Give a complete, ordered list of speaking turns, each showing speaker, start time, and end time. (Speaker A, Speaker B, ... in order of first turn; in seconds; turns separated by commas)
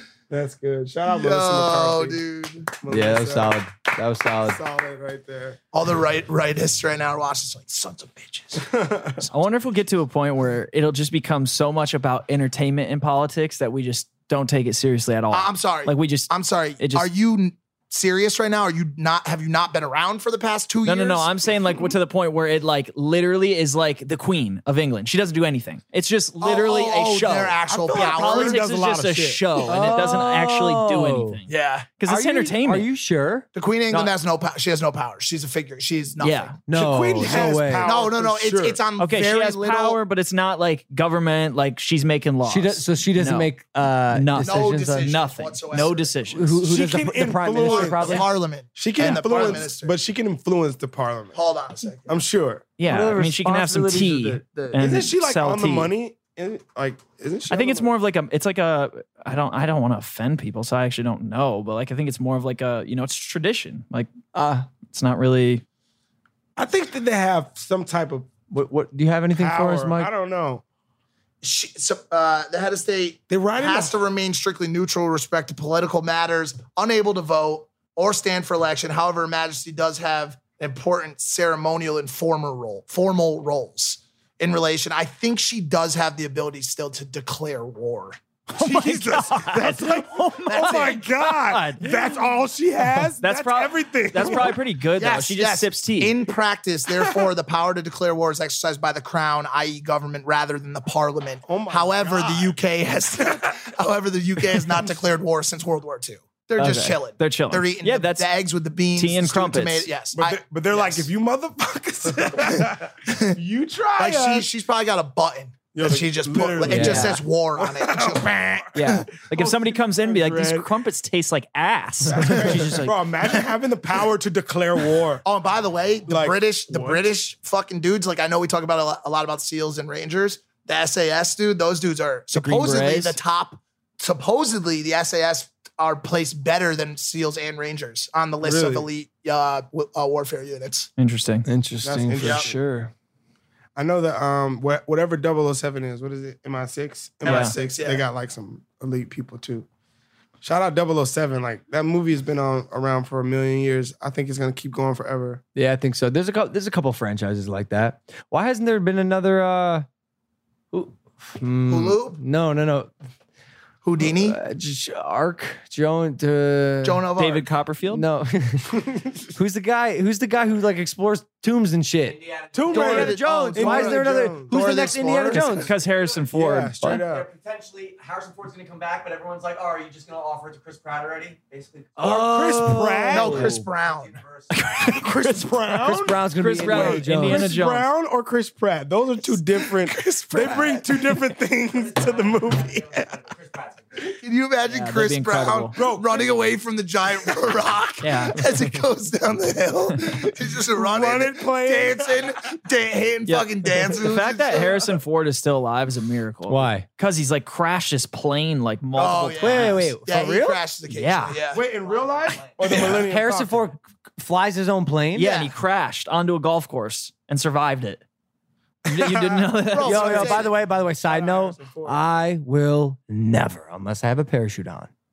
Speaker A: 0.3-2.2, Speaker B: 1.1-2.7, Speaker A: 2.8-3.6, Speaker C: 2.9-4.6, Speaker A: 4.4-5.6, Speaker B: 5.7-8.7, Speaker A: 8.6-9.2, Speaker D: 9.3-17.1, Speaker B: 15.3-21.3, Speaker D: 20.9-32.9, Speaker B: 26.4-28.6, Speaker A: 27.9-29.5, Speaker C: 29.7-31.4, Speaker B: 31.5-31.9, Speaker C: 32.0-33.5, Speaker B: 33.5-36.6, Speaker D: 36.2-36.5, Speaker C: 36.7-37.9, Speaker A: 36.7-38.8, Speaker B: 37.2-40.0, Speaker D: 39.0-43.5, Speaker C: 42.4-45.1, Speaker D: 44.1-46.6, Speaker B: 44.4-46.1, Speaker C: 46.3-48.3, Speaker A: 46.6-48.2, Speaker B: 47.6-50.0, Speaker A: 48.8-51.4, Speaker D: 49.0-49.6, Speaker B: 51.3-52.1, Speaker A: 52.1-52.7, Speaker D: 52.8-55.9, Speaker C: 52.9-54.7, Speaker A: 54.8-57.9, Speaker D: 57.5-64.1, Speaker C: 64.3-64.7, Speaker D: 64.9-65.6, Speaker A: 66.6-68.3, Speaker C: 68.5-70.1, Speaker A: 69.3-70.6, Speaker B: 71.4-88.2, Speaker A: 73.3-74.0, Speaker A: 88.5-94.6, Speaker D: 88.6-91.9, Speaker B: 90.5-91.0, Speaker D: 93.2-96.2, Speaker B: 95.0-111.1, Speaker A: 101.5-102.6, Speaker D: 106.6-108.3, Speaker D: 109.0-109.9, Speaker A: 110.1-114.5, Speaker B: 113.1-113.4, Speaker B: 114.0-119.0, Speaker A: 115.7-120.7, Speaker C: 116.7-117.2, Speaker D: 118.7-123.0, Speaker A: 122.1-125.2, Speaker B: 125.2-140.9, Speaker A: 126.1-127.1, Speaker D: 132.3-133.2, Speaker A: 138.4-138.9, Speaker D: 141.0-141.4, Speaker C: 141.5-142.9, Speaker A: 141.8-142.6, Speaker B: 142.2-142.5, Speaker A: 143.8-149.7, Speaker B: 147.2-148.0, Speaker D: 147.2-147.6, Speaker A: 150.4-155.4, Speaker C: 155.6-159.9, Speaker C: 160.7-162.9, Speaker B: 161.7-162.2, Speaker B: 163.8-164.4, Speaker C: 164.0-167.1, Speaker B: 166.8-167.5, Speaker D: 167.2-168.1, Speaker C: 167.9-168.8, Speaker C: 169.3-172.2, Speaker E: 172.1-173.0, Speaker A: 172.5-174.6, Speaker B: 172.7-175.6, Speaker C: 172.7-175.7, Speaker D: 175.3-177.0, Speaker A: 176.3-177.3, Speaker E: 176.9-182.1, Speaker A: 182.0-183.5, Speaker C: 182.0-183.6, Speaker B: 183.1-184.2, Speaker E: 183.8-184.8, Speaker C: 184.5-187.5, Speaker A: 184.8-193.2, Speaker D: 186.3-187.9, Speaker B: 189.2-191.2, Speaker E: 191.7-194.0, Speaker B: 194.2-204.9, Speaker D: 194.7-195.8, Speaker A: 195.7-196.3, Speaker D: 198.0-198.4, Speaker A: 200.8-202.4, Speaker D: 203.3-209.9, Speaker C: 206.5-206.9, Speaker B: 208.9-211.7, Speaker C: 209.4-210.6, Speaker D: 210.9-211.4, Speaker A: 211.5-213.6, Speaker E: 211.6-212.8, Speaker B: 212.7-213.0, Speaker C: 213.1-215.3, Speaker D: 215.2-218.0, Speaker B: 215.2-215.5, Speaker D: 218.9-220.4, Speaker A: 219.0-220.3, Speaker B: 219.7-220.5, Speaker C: 219.8-224.9, Speaker A: 221.0-222.0